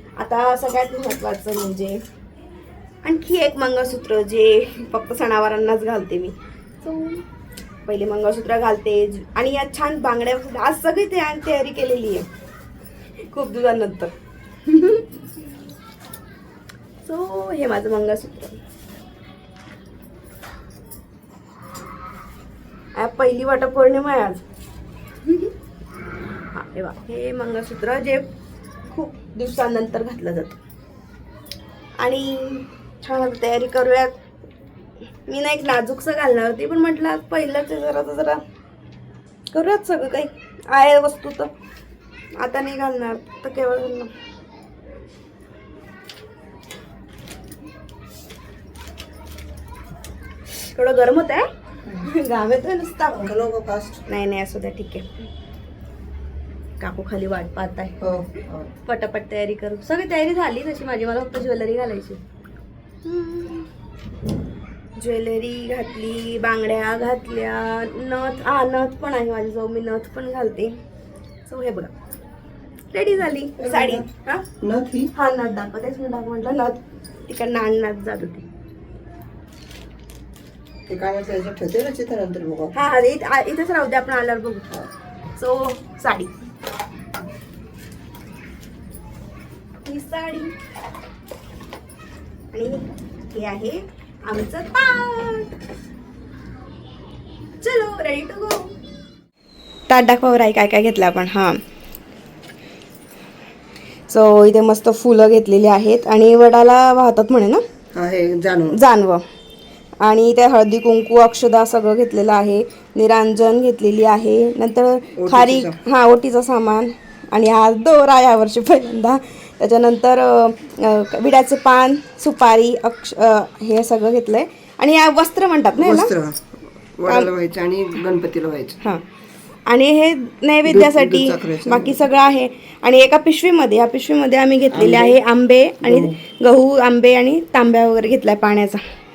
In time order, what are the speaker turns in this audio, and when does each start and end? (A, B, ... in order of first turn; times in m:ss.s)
0:00.2-0:02.0 A
0:03.0-0:07.2 A
0:07.9-0:12.3 A
0:13.3-0:14.1 A
0:14.7-0:15.1 A
0:17.0-0:18.6 A
0:23.0-0:24.4 A
0:26.6-0:28.3 A
0:28.9-0:30.6 A
0:32.0-0:34.2 A
0:35.3-0:38.4 A
0:39.5-0:41.5 A
0:42.4-0:44.1 A
0:50.5-0:51.4 A
0:52.0-0:53.3 A
0:53.2-0:54.0 B
0:54.1-0:55.1 A
0:56.8-0:57.9 A
0:58.0-0:58.7 B
0:58.9-1:02.2 A
1:03.0-1:03.7 A
1:05.0-1:10.8 A
1:11.5-1:11.9 A
1:12.9-1:14.4 A
1:13.6-1:14.1 B
1:14.6-1:15.1 B
1:15.1-1:18.4 A
1:20.9-1:22.7 B
1:22.7-1:24.7 A
1:25.4-1:26.3 A
1:29.8-1:30.5 A
1:32.5-1:35.5 A
1:37.6-1:38.7 A
1:39.9-1:41.6 A
1:44.1-1:47.6 A
1:47.9-1:48.8 B
1:48.7-1:49.2 A
1:50.0-2:06.1 A
1:55.2-1:55.8 B
2:05.8-2:08.8 B
2:09.7-2:18.8 A
2:10.6-2:12.0 B
2:14.7-2:15.2 B
2:15.8-2:16.2 B